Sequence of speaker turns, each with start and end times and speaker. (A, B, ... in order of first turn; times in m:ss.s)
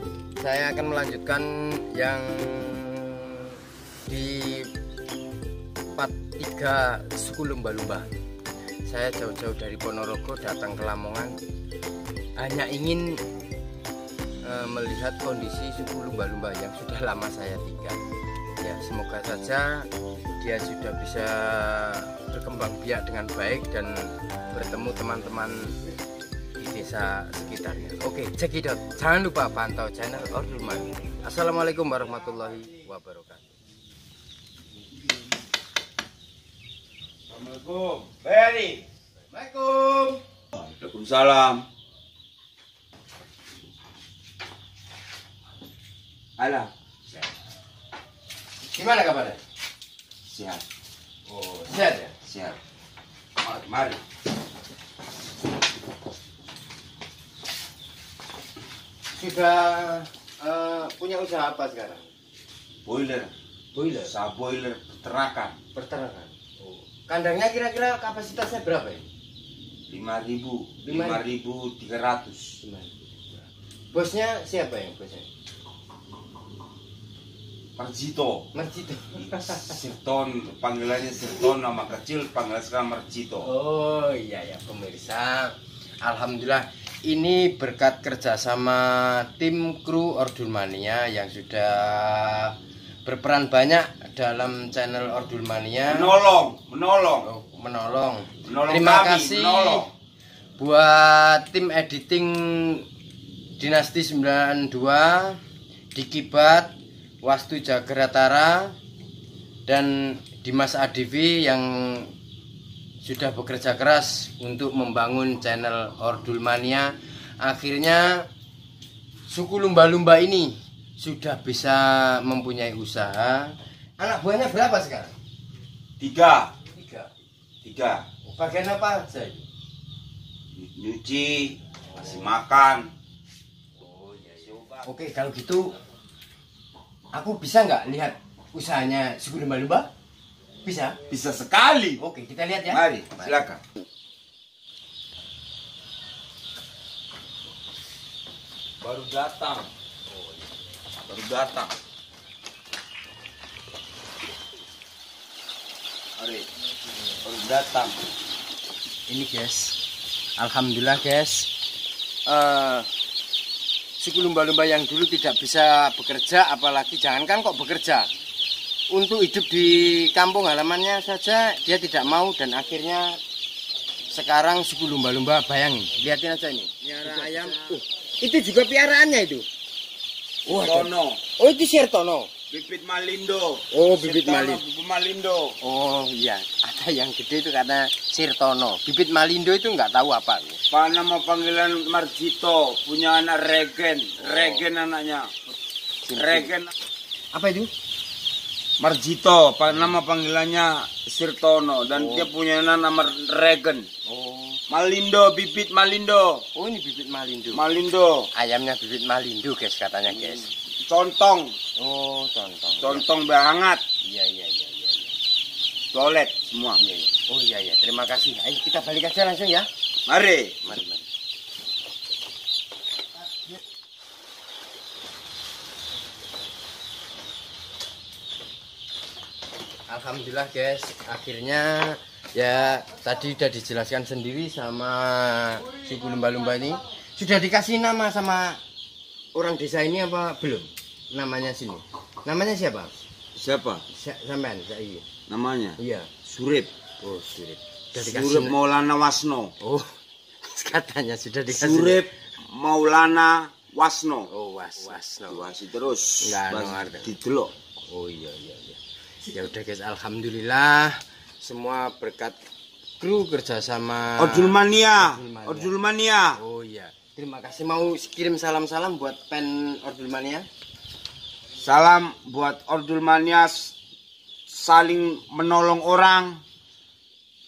0:00.4-0:04.7 A
0:06.0-0:08.1 A
0:08.9-0:11.4 A
0:12.4-0:13.2 A
0:14.4-0:18.0 A
0:18.6-0:25.8 A
0:26.6-0:33.4 A
0:37.3-0:38.8 B
0:39.3-0:40.2 A
0:40.5-0:41.6 B
0:46.4-0:46.7 B
0:48.6-0:49.4 A
0:50.2-0:50.6 B
0:51.3-0:52.2 A
0:52.2-0:52.6 B
0:53.4-0:54.0 B
0:59.2-1:02.1 A
1:02.8-1:03.3 B
1:03.7-1:04.1 A
1:04.0-1:05.6 B
1:05.7-1:09.1 A
1:09.9-1:12.6 B
1:10.8-1:11.2 A
1:12.6-1:13.1 A
1:13.9-1:15.3 A
1:17.8-1:18.5 B
1:18.5-1:19.8 A
1:19.2-1:23.5 B
1:23.4-1:36.1 A
1:35.9-1:37.3 B
1:37.2-1:39.9 A
1:38.5-1:39.9 B
1:40.6-1:42.9 A
1:43.6-1:45.4 A
1:45.9-1:48.8 A
1:49.7-1:52.1 A
1:53.0-1:58.3 A
1:59.3-2:05.1 A
2:06.0-2:06.5 B
2:06.7-2:07.1 A
2:07.6-2:08.0 B
2:08.2-2:09.4 A
2:10.5-2:12.9 B
2:13.8-2:15.7 A
2:14.4-2:14.9 B
2:17.1-2:19.9 A
2:20.6-2:21.0 A
2:21.1-2:22.0 B
2:22.0-2:23.4 A
2:22.7-2:23.6 B
2:28.8-2:29.7 B
2:31.1-2:31.7 B
2:36.2-2:36.5 B
2:37.2-2:38.0 B
2:39.1-2:39.8 A
2:40.4-2:41.5 A
2:42.3-2:42.9 A
2:44.0-2:48.1 A
2:48.9-2:53.2 A
2:54.1-2:59.5 A
2:57.0-2:57.8 B
3:00.5-3:02.3 A
3:00.5-3:01.2 B
3:02.5-3:05.6 B
3:03.7-3:04.6 A
3:05.6-3:10.6 A
3:10.7-3:15.5 B
3:14.2-3:14.6 A
3:16.0-3:16.5 A
3:16.2-3:16.7 B
3:17.3-3:17.7 A
3:18.8-3:23.9 B
3:22.0-3:22.3 A
3:24.1-3:24.6 A
3:24.7-3:26.4 B
3:26.5-3:27.6 A
3:27.5-3:28.3 B
3:28.3-3:30.5 A
3:30.3-3:31.6 B
3:31.8-3:33.1 A
3:32.8-3:33.8 B
3:34.0-3:35.1 A
3:35.9-3:36.8 B
3:36.8-3:39.7 A
3:40.1-3:40.6 B
3:40.6-3:41.1 A
3:49.9-3:58.6 A
3:59.4-4:03.0 A
4:03.4-4:03.8 B
4:03.9-4:05.0 A
4:05.3-4:06.7 B
4:05.8-4:06.1 A
4:07.0-4:08.6 A
4:08.0-4:09.5 B
4:09.6-4:12.1 A
4:11.5-4:14.3 B
4:14.3-4:15.5 A
4:15.3-4:17.5 B
4:16.2-4:17.2 A
4:17.9-4:22.4 A
4:23.0-4:25.7 A
4:24.2-4:26.4 B
4:26.4-4:30.5 A
4:31.6-4:33.8 B
4:34.5-4:36.4 B